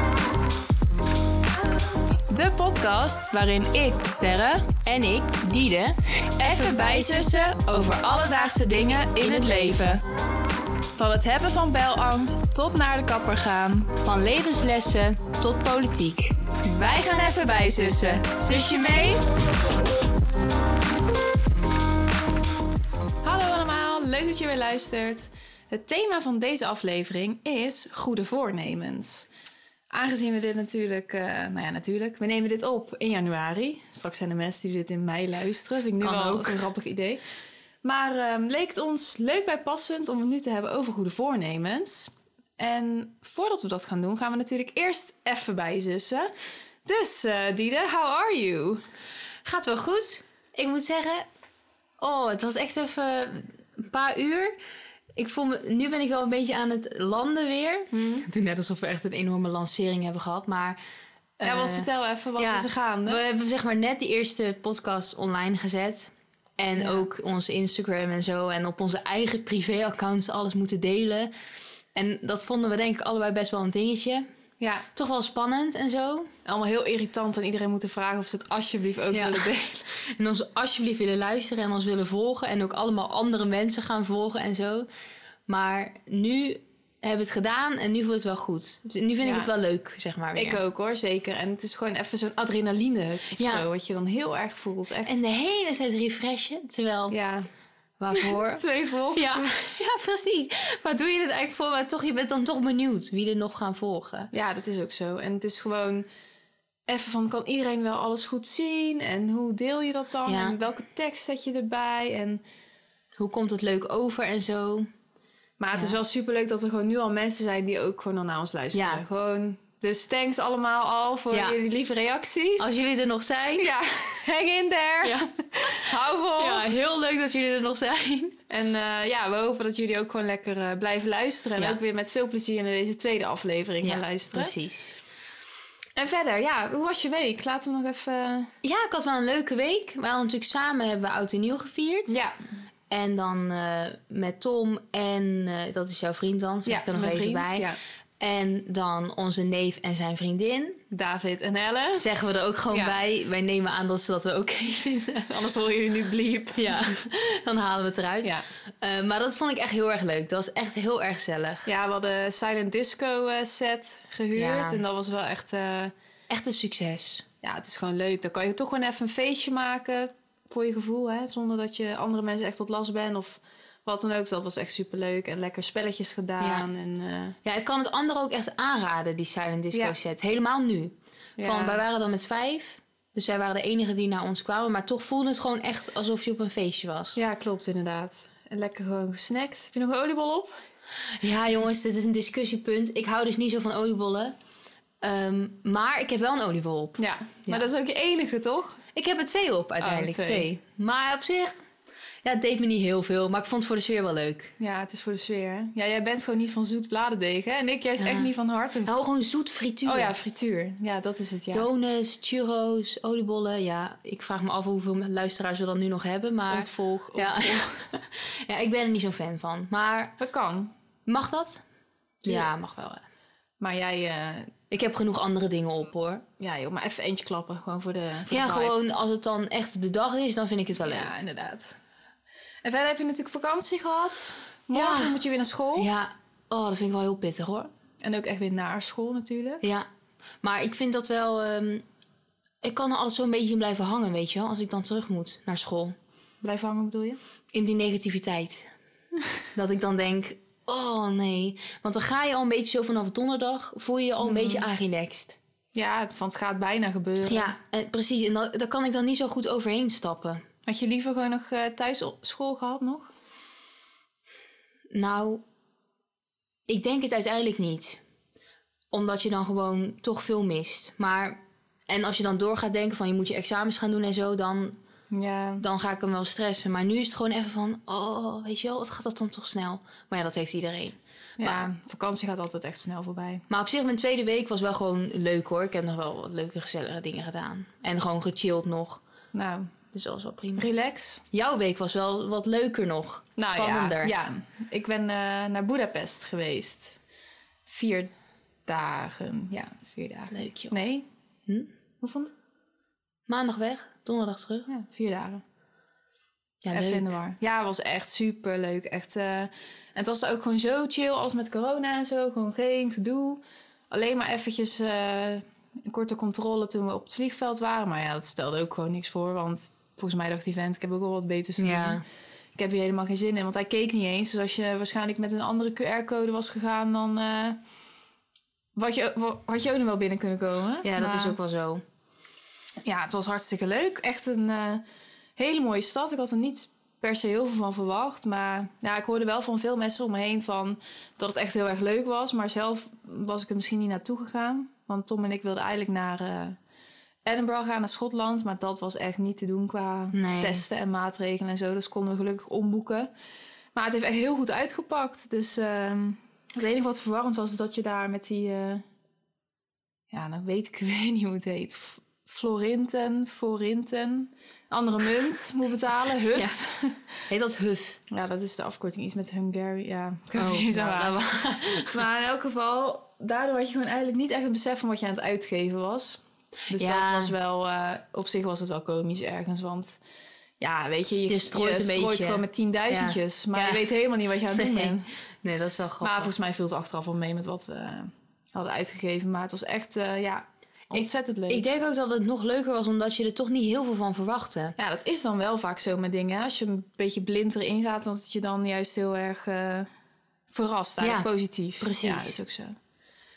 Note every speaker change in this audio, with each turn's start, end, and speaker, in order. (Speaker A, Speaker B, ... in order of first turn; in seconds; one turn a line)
Speaker A: 2.3-4.7
Speaker B: 4.8-6.0
Speaker A: 6.4-10.0
Speaker B: 9.2-9.8
Speaker A: 10.9-13.9
Speaker B: 14.0-16.4
Speaker A: 16.6-19.2
Speaker A: 23.2-29.3
Speaker A: 29.9-37.2
Speaker B: 36.0-36.7
Speaker A: 37.8-46.3
Speaker A: 46.9-48.8
Speaker B: 49.5-51.3
Speaker B: 52.0-54.6
Speaker B: 55.2-60.8
Speaker A: 57.9-58.3
Speaker B: 61.4-71.3
Speaker A: 61.4-63.2
Speaker A: 66.8-67.1
Speaker B: 72.0-74.3
Speaker A: 74.6-74.9
Speaker B: 75.0-76.3
Speaker A: 76.5-79.9
Speaker B: 79.1-84.9
Speaker B: 85.5-90.6
Speaker A: 89.2-89.5
Speaker A: 90.3-95.2
Speaker B: 93.4-93.7
Speaker B: 95.1-97.2
Speaker A: 97.1-97.5
Speaker B: 98.0-104.3
Speaker A: 98.1-99.5
Speaker A: 104.3-106.1
Speaker A: 106.9-112.4
Speaker B: 110.2-110.6
Speaker B: 113.2-114.9
Speaker A: 115.6-122.8
Speaker B: 118.7-119.0
Speaker B: 121.3-121.6
Speaker B: 122.6-123.7
Speaker A: 123.6-126.7
Speaker B: 125.0-128.4
Speaker A: 128.5-134.5
Speaker B: 133.8-134.9
Speaker A: 136.0-138.5
Speaker B: 138.6-142.2
Speaker A: 142.1-142.4
Speaker B: 142.9-147.7
Speaker A: 146.7-147.8
Speaker B: 148.2-150.8
Speaker A: 150.9-152.1
Speaker B: 152.0-155.3
Speaker A: 152.7-153.0
Speaker A: 155.3-157.0
Speaker B: 156.6-161.7
Speaker A: 161.7-165.9
Speaker B: 164.3-164.8
Speaker B: 166.3-167.2
Speaker A: 167.4-177.4
Speaker B: 176.4-176.7
Speaker B: 177.4-187.2
Speaker A: 181.4-181.8
Speaker A: 187.2-190.5
Speaker B: 191.2-194.4
Speaker B: 195.0-197.7
Speaker A: 197.0-198.8
Speaker B: 198.9-201.6
Speaker A: 199.8-200.6
Speaker B: 202.2-204.5
Speaker A: 204.6-208.9
Speaker B: 208.0-208.3
Speaker B: 208.8-210.1
Speaker A: 209.8-211.7
Speaker B: 211.5-220.2
Speaker A: 216.5-217.8
Speaker A: 220.2-220.7
Speaker B: 221.1-221.6
Speaker B: 222.2-223.1
Speaker A: 222.2-222.5
Speaker A: 223.6-224.6
Speaker B: 224.7-226.2
Speaker A: 226.4-228.7
Speaker B: 228.3-231.1
Speaker A: 230.8-231.8
Speaker A: 232.6-235.9
Speaker B: 234.7-235.2
Speaker B: 235.8-237.7
Speaker A: 238.0-239.6
Speaker B: 239.6-239.9
Speaker B: 240.4-241.8
Speaker B: 242.6-245.9
Speaker A: 246.4-247.2
Speaker B: 247.5-248.7
Speaker B: 249.5-255.4
Speaker A: 254.2-254.7
Speaker A: 255.7-257.5
Speaker B: 257.3-260.4
Speaker A: 260.7-263.1
Speaker B: 264.9-265.4
Speaker B: 266.7-268.0
Speaker B: 268.9-274.8
Speaker A: 275.1-275.6
Speaker B: 275.6-281.7
Speaker A: 281.4-283.4
Speaker B: 283.5-289.0
Speaker A: 289.3-289.7
Speaker B: 289.9-290.7
Speaker A: 290.6-291.2
Speaker B: 291.3-294.1
Speaker A: 293.4-297.0
Speaker A: 297.7-298.1
Speaker A: 298.7-301.1
Speaker B: 300.3-300.8
Speaker A: 302.0-302.3
Speaker B: 303.3-304.7
Speaker A: 304.7-305.4
Speaker B: 306.6-307.1
Speaker A: 306.7-322.0
Speaker B: 321.6-322.0
Speaker A: 322.6-327.6
Speaker A: 328.8-331.4
Speaker B: 330.8-331.8
Speaker A: 332.8-334.8
Speaker A: 335.4-346.6
Speaker A: 347.2-353.1
Speaker B: 350.1-350.6
Speaker A: 353.8-358.9
Speaker A: 360.1-367.1
Speaker B: 366.3-366.6
Speaker B: 367.3-368.0
Speaker A: 368.1-380.0
Speaker B: 370.4-372.0
Speaker B: 376.7-377.4
Speaker A: 380.6-385.1
Speaker B: 381.3-383.9
Speaker B: 384.5-386.3
Speaker A: 386.0-391.6
Speaker B: 390.9-394.8
Speaker A: 394.8-399.9
Speaker A: 400.5-402.8
Speaker B: 401.0-402.4